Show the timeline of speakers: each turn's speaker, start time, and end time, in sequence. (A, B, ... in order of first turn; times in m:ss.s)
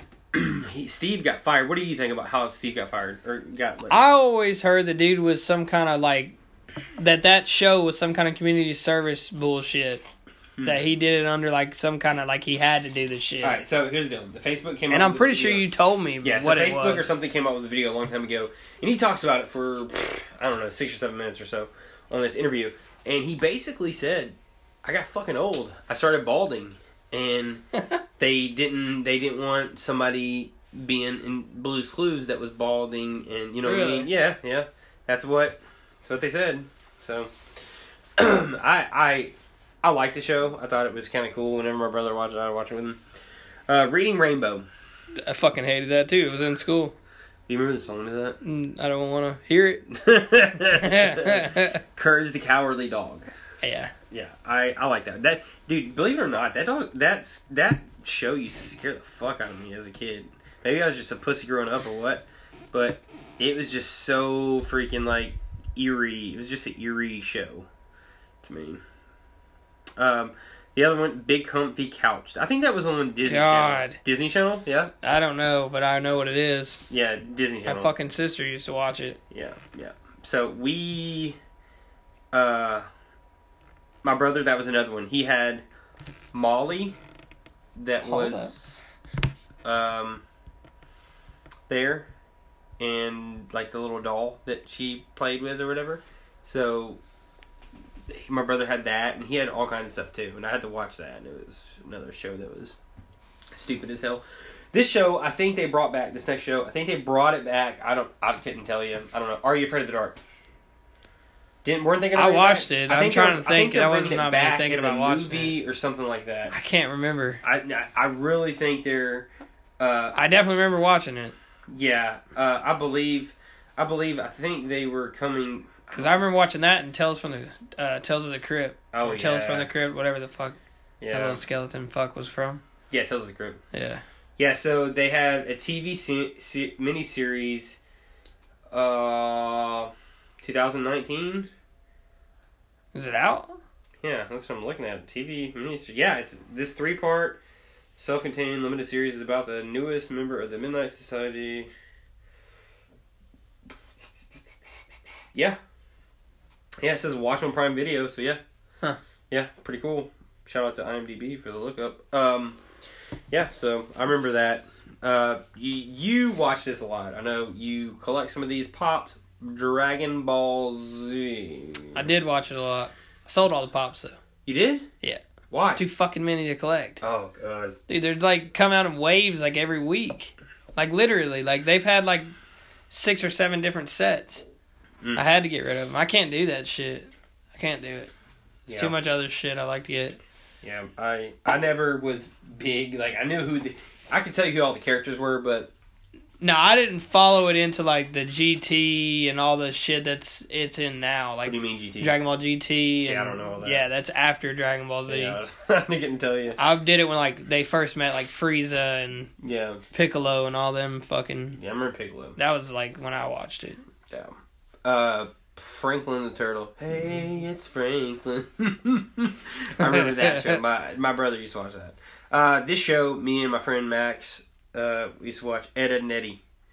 0:00.3-0:04.0 A
0:03.9-0:06.4 B
0:07.0-0:10.1 B
0:10.6-0:10.8 A
0:10.6-0:13.6 B
0:13.4-0:15.7 A
0:14.9-0:17.2 B
0:16.2-0:27.6 A
0:28.2-0:37.3 A
0:33.6-0:34.1 B
0:38.2-0:43.0 A
0:43.7-0:44.7 A
0:45.2-0:47.0 B
0:47.5-0:48.4 A
0:48.4-0:49.8 B
0:49.9-0:53.3 A
0:50.7-0:51.8 B
0:53.6-0:53.9 B
0:54.1-1:07.7 A
1:08.4-1:08.8 A
1:10.0-1:15.0 A
1:13.2-1:14.0 B
1:15.0-1:16.9 B
1:16.9-1:17.9 A
1:17.7-1:19.2 B
1:19.3-1:21.4 A
1:22.3-1:22.9 A
1:24.0-1:25.6 A
1:26.3-1:27.0 A
1:27.8-1:28.8 A
1:28.0-1:28.6 B
1:29.6-1:30.2 A
1:31.7-1:32.1 A
1:32.8-1:37.0 A
1:38.1-1:42.8 A
1:43.5-1:50.2 A
1:51.6-1:56.6 A
1:52.2-1:55.6 B
1:56.5-1:57.4 B
1:57.4-1:59.3 A
1:59.8-2:00.4 A
2:00.2-2:01.3 B
2:01.7-2:06.1 A
2:05.9-2:10.6 B
2:08.9-2:09.7 A
2:11.0-2:11.4 A
2:11.1-2:12.6 B
2:12.9-2:13.6 A
2:13.7-2:14.0 B
2:14.4-2:17.8 A
2:18.7-2:21.5 A
2:22.9-2:23.6 B
2:24.0-2:27.4 A
2:28.0-2:31.7 A
2:36.8-2:38.4 A
2:39.3-2:42.6 A
2:43.3-2:52.0 A
2:52.0-2:54.2 B
2:54.5-2:54.9 A
2:55.0-2:57.0 B
2:55.5-2:55.8 A
2:57.0-2:57.8 A
2:57.9-3:02.3 B
3:02.9-3:04.5 B
3:05.2-3:08.1 B
3:08.7-3:09.0 A
3:08.7-3:10.2 B
3:10.6-3:15.7 A
3:16.4-3:25.4 B
3:21.4-3:22.2 A
3:23.0-3:23.9 A
3:25.1-3:26.6 A
3:26.6-3:29.3 B
3:29.4-3:29.8 A
3:29.9-3:31.6 B
3:31.6-3:32.4 A
3:32.4-3:33.8 B
3:34.1-3:46.4 A
3:39.8-3:40.6 B